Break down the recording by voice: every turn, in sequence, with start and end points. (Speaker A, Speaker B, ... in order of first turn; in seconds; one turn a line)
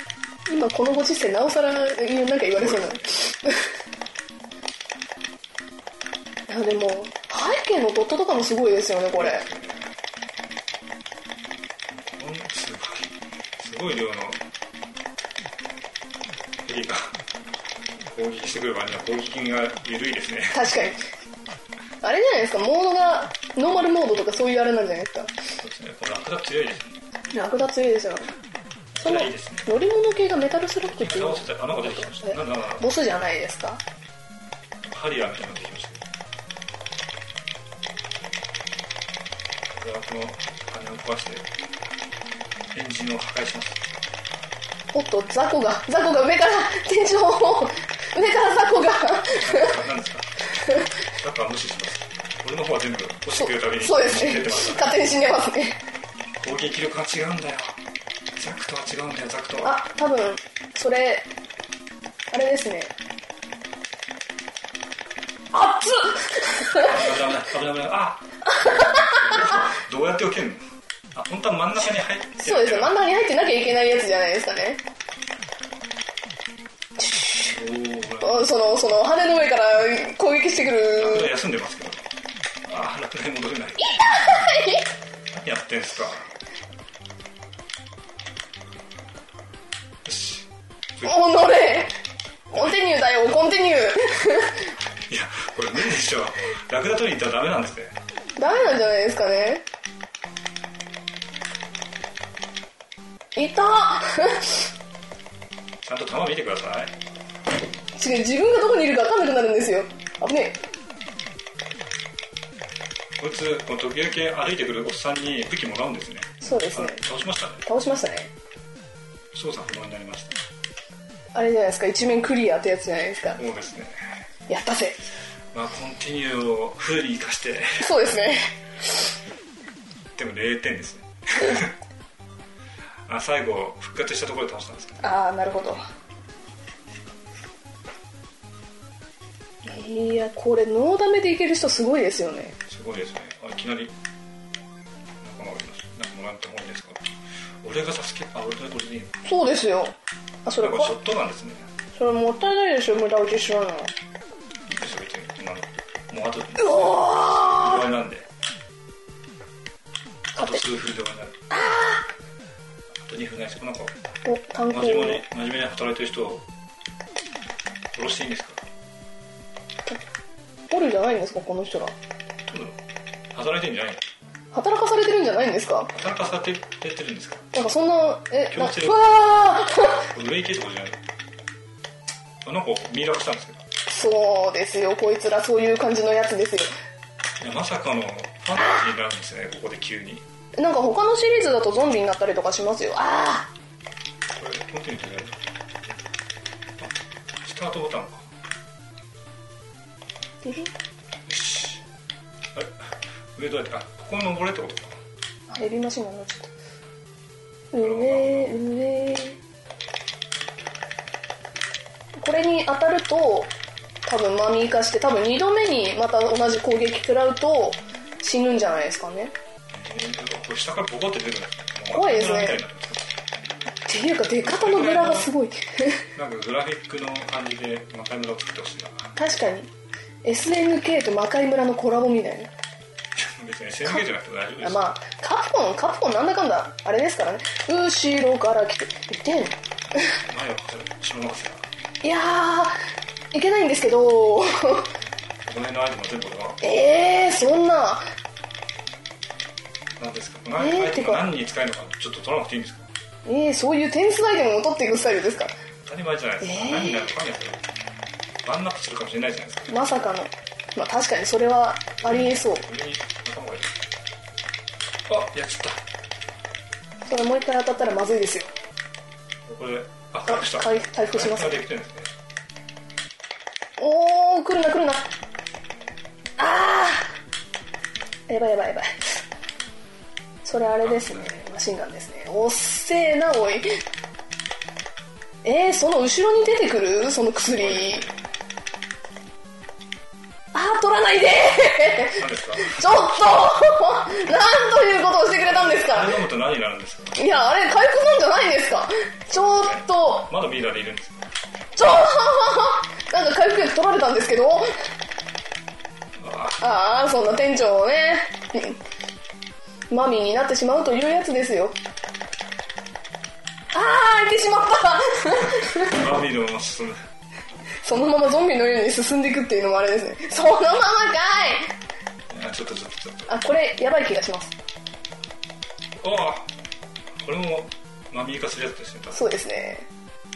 Speaker A: 0.5-3.7
Speaker B: 2.5-3.0
Speaker A: 6.5-9.4
Speaker B: 9.2-9.9
Speaker B: 11.9-14.4
Speaker B: 16.6-17.1
Speaker B: 18.1-20.6
Speaker A: 20.5-21.1
Speaker A: 22.0-25.3
Speaker B: 25.6-27.0
Speaker A: 27.3-28.3
Speaker B: 28.9-29.7
Speaker A: 29.0-33.8
Speaker B: 30.8-32.9
Speaker B: 34.8-36.0
Speaker B: 39.7-41.5
Speaker B: 42.7-43.8
Speaker A: 44.9-49.8
Speaker B: 49.3-50.4
Speaker B: 51.1-54.9
Speaker A: 53.3-55.8
Speaker B: 56.4-57.8
Speaker B: 58.3-59.8
Speaker A: 59.6-61.3
Speaker A: 62.3-62.9
Speaker A: 65.5-67.0
Speaker B: 66.8-73.0
Speaker A: 68.6-69.3
Speaker A: 72.4-74.8
Speaker A: 77.0-77.5
Speaker B: 77.5-78.5
Speaker A: 78.2-81.3
Speaker B: 81.0-82.1
Speaker B: 82.7-83.9
Speaker A: 83.8-84.8
Speaker B: 85.3-86.3
Speaker B: 90.0-91.1
Speaker A: 91.0-91.9
Speaker A: 92.5-94.7
Speaker B: 95.0-98.0
Speaker A: 98.4-99.6
Speaker A: 103.3-104.7
Speaker B: 105.8-106.9
Speaker A: 108.0-110.6
Speaker B: 113.2-117.6
Speaker A: 116.4-117.0
Speaker A: 117.6-118.3
Speaker B: 119.3-120.4
Speaker A: 121.3-123.4
Speaker B: 123.4-124.2
Speaker A: 124.5-125.0
Speaker B: 125.5-127.8
Speaker A: 127.8-129.1
Speaker B: 130.1-131.7
Speaker B: 133.1-135.0
Speaker A: 135.0-135.8
Speaker A: 139.6-142.6
Speaker B: 142.7-143.9
Speaker B: 145.2-149.2
Speaker A: 149.2-150.9
Speaker B: 150.6-151.7
Speaker A: 151.9-153.9
Speaker B: 154.7-158.3
Speaker A: 156.6-157.8
Speaker B: 160.3-161.4
Speaker A: 160.3-160.6
Speaker A: 161.5-162.0
Speaker B: 162.9-163.9
Speaker A: 164.2-165.2
Speaker B: 164.7-166.5
Speaker B: 167.9-168.6
Speaker A: 170.7-171.9
Speaker B: 172.4-172.8
Speaker B: 173.3-174.0
Speaker A: 174.5-175.9
Speaker B: 175.9-177.5
Speaker A: 177.5-180.1
Speaker B: 178.5-179.0
Speaker B: 180.0-181.0
Speaker B: 182.4-183.6
Speaker A: 183.9-186.7
Speaker B: 187.4-190.2
Speaker A: 190.6-193.5
Speaker B: 194.3-195.4
Speaker B: 196.8-198.3
Speaker A: 200.4-200.7
Speaker B: 201.2-201.8
Speaker B: 202.5-205.0
Speaker A: 205.5-206.5
Speaker A: 207.7-209.4
Speaker B: 207.8-208.5
Speaker A: 212.2-213.5
Speaker A: 214.0-219.3
Speaker B: 219.7-223.1
Speaker A: 221.9-222.6
Speaker A: 223.9-226.1
Speaker B: 224.4-225.3
Speaker B: 226.1-229.1
Speaker A: 229.2-229.7
Speaker A: 230.2-232.5
Speaker B: 233.1-234.8
Speaker A: 234.6-240.2
Speaker B: 240.2-241.7
Speaker A: 242.0-242.8
Speaker A: 243.3-244.9
Speaker B: 245.4-246.6
Speaker A: 246.6-248.1
Speaker B: 250.0-252.9
Speaker A: 250.6-251.2
Speaker A: 253.2-255.6
Speaker B: 255.8-257.7
Speaker A: 256.4-257.1
Speaker B: 258.4-259.8
Speaker A: 259.7-262.6
Speaker B: 262.0-263.7
Speaker B: 265.1-265.8
Speaker A: 267.1-268.5
Speaker B: 269.4-272.1
Speaker A: 270.3-271.6
Speaker A: 273.8-275.1
Speaker A: 276.4-277.1
Speaker A: 278.3-279.2
Speaker A: 280.4-283.8
Speaker B: 280.8-281.3
Speaker A: 285.4-288.0
Speaker B: 287.4-288.2
Speaker A: 290.5-296.2
Speaker B: 292.1-293.2
Speaker B: 295.4-297.2
Speaker A: 297.1-300.3
Speaker B: 299.3-301.3
Speaker A: 301.8-304.8
Speaker B: 306.2-306.6
Speaker A: 306.6-308.8
Speaker A: 309.9-311.8
Speaker A: 313.7-316.0
Speaker B: 315.6-317.0
Speaker A: 317.8-321.7
Speaker B: 322.3-323.4
Speaker A: 323.3-324.5
Speaker B: 325.9-326.5
Speaker B: 327.1-329.2
Speaker A: 329.1-329.9